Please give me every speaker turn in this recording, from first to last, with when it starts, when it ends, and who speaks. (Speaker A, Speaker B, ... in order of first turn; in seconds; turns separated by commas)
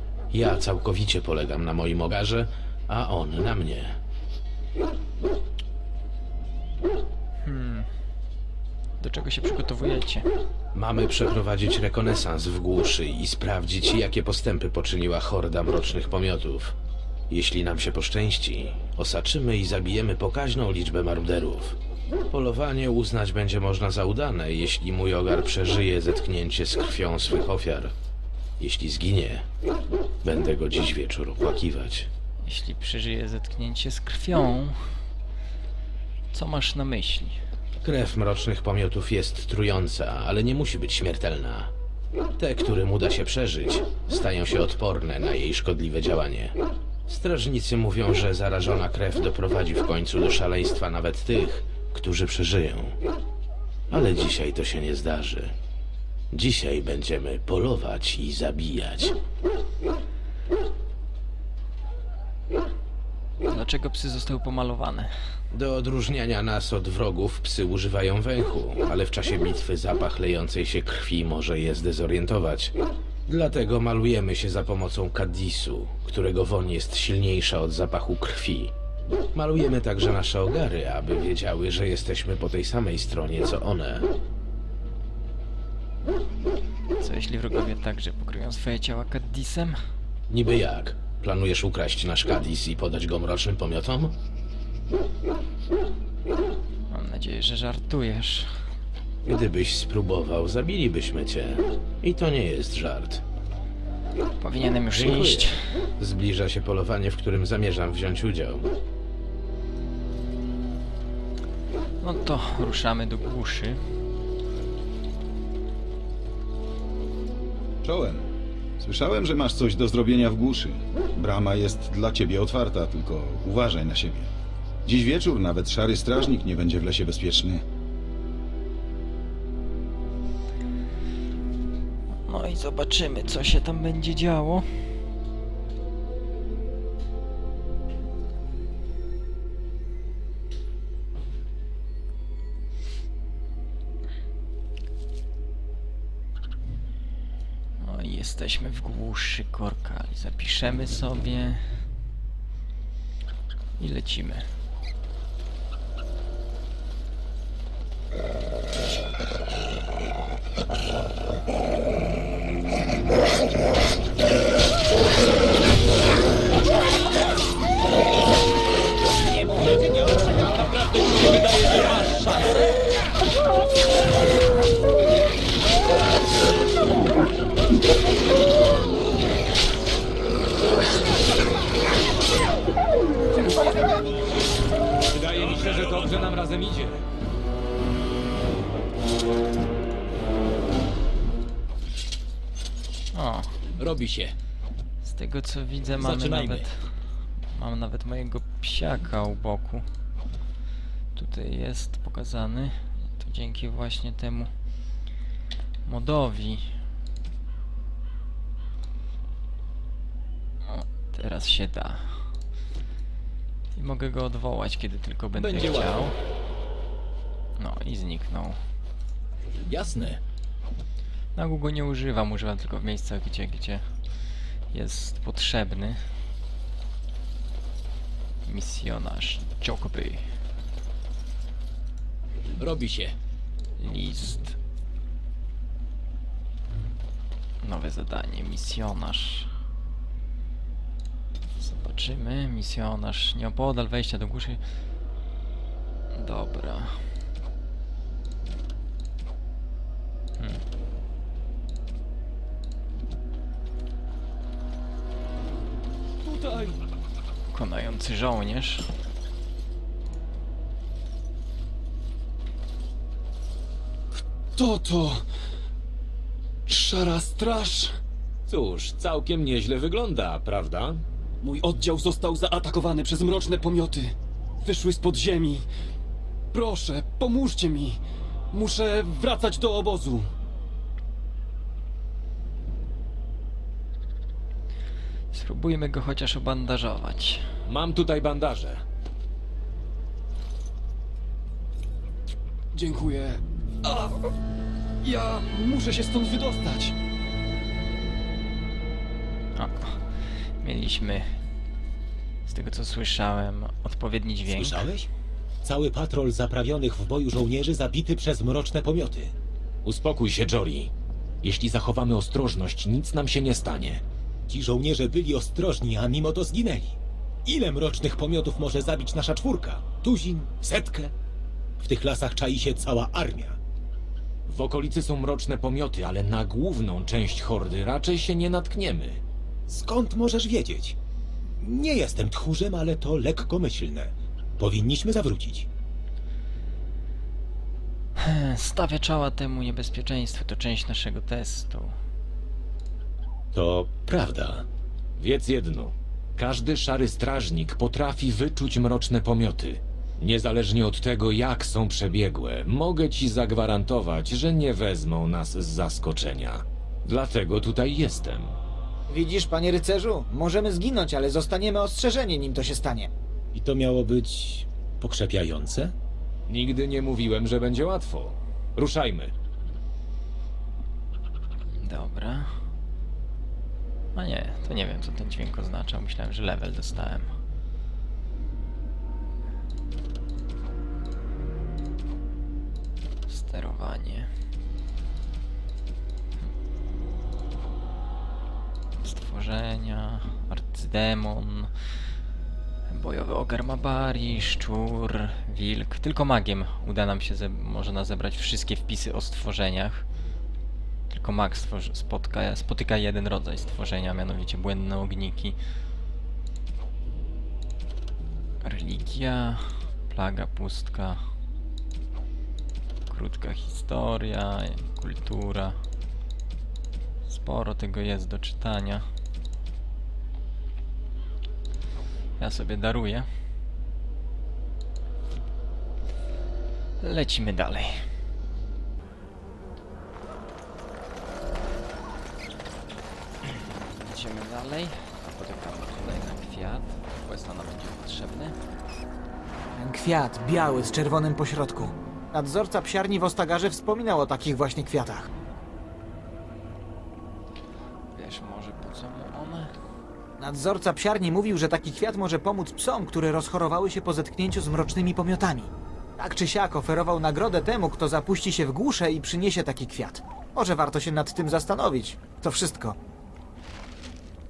Speaker A: 0.3-4.0, Speaker B: 7.5-7.9, Speaker B: 9.0-10.3, Speaker A: 10.8-16.7, Speaker A: 17.3-21.8, Speaker A: 22.3-27.9, Speaker A: 28.6-29.4, Speaker A: 30.2-32.1, Speaker B: 32.4-35.0, Speaker B: 36.3-37.4, Speaker A: 37.8-41.7, Speaker A: 42.4-46.5, Speaker A: 47.1-53.0, Speaker A: 53.9-55.5, Speaker A: 56.3-59.2, Speaker B: 63.5-65.1, Speaker A: 65.5-72.7, Speaker A: 73.3-78.7, Speaker A: 79.3-84.1, Speaker B: 87.0-89.8, Speaker A: 90.3-94.2, Speaker B: 96.9-98.7, Speaker A: 99.2-103.2, Speaker B: 104.4-105.9, Speaker A: 104.9-108.7, Speaker B: 112.0-113.8, Speaker C: 117.8-118.3, Speaker C: 118.8-124.3, Speaker C: 124.9-127.6, Speaker B: 132.2-134.9, Speaker B: 147.8-151.9, Speaker B: 153.8-154.5, Speaker D: 170.5-172.5, Speaker D: 185.1-187.0, Speaker B: 193.1-193.6, Speaker D: 193.8-194.3, Speaker B: 195.0-199.9, Speaker D: 196.0-196.7, Speaker B: 201.1-204.5, Speaker B: 205.8-206.8, Speaker B: 210.7-212.3, Speaker B: 213.8-216.2, Speaker D: 215.3-216.1, Speaker B: 217.6-218.6, Speaker D: 219.7-220.2, Speaker B: 221.4-224.0, Speaker B: 224.7-226.1, Speaker B: 228.4-230.2, Speaker D: 232.6-233.2, Speaker B: 233.8-234.6, Speaker B: 237.6-239.6, Speaker B: 241.6-244.6, Speaker B: 246.1-247.1, Speaker E: 256.2-256.8, Speaker B: 257.5-258.9, Speaker E: 264.5-265.2, Speaker E: 266.7-267.9, Speaker D: 268.5-271.0, Speaker E: 271.4-275.6, Speaker E: 276.5-278.0, Speaker E: 278.5-280.3, Speaker B: 285.3-287.5, Speaker D: 287.7-288.8, Speaker E: 292.7-294.3, Speaker E: 295.0-296.9, Speaker B: 299.5-301.4, Speaker B: 302.4-304.9, Speaker F: 304.4-305.1, Speaker F: 305.6-309.3, Speaker D: 309.8-310.9, Speaker D: 311.4-314.0, Speaker F: 314.5-321.1, Speaker F: 321.8-323.6, Speaker D: 324.5-329.2, Speaker F: 329.7-330.9, Speaker F: 331.6-335.7, Speaker B: 338.2-342.0, Speaker F: 343.5-344.6, Speaker D: 345.2-358.6, Speaker G: 359.1-363.1, Speaker F: 363.5-365.9, Speaker D: 366.5-369.3, Speaker B: 371.8-372.6, Speaker B: 374.1-377.4, Speaker B: 383.3-384.3, Speaker B: 389.0-391.7, Speaker B: 392.9-400.1, Speaker B: 401.1-405.6, Speaker B: 408.6-411.3, Speaker B: 413.1-415.8, Speaker B: 417.3-419.1, Speaker B: 422.4-423.3, Speaker B: 427.0-428.1, Speaker B: 434.0-438.6, Speaker G: 439.8-445.3, Speaker B: 448.1-449.7, Speaker G: 450.4-462.9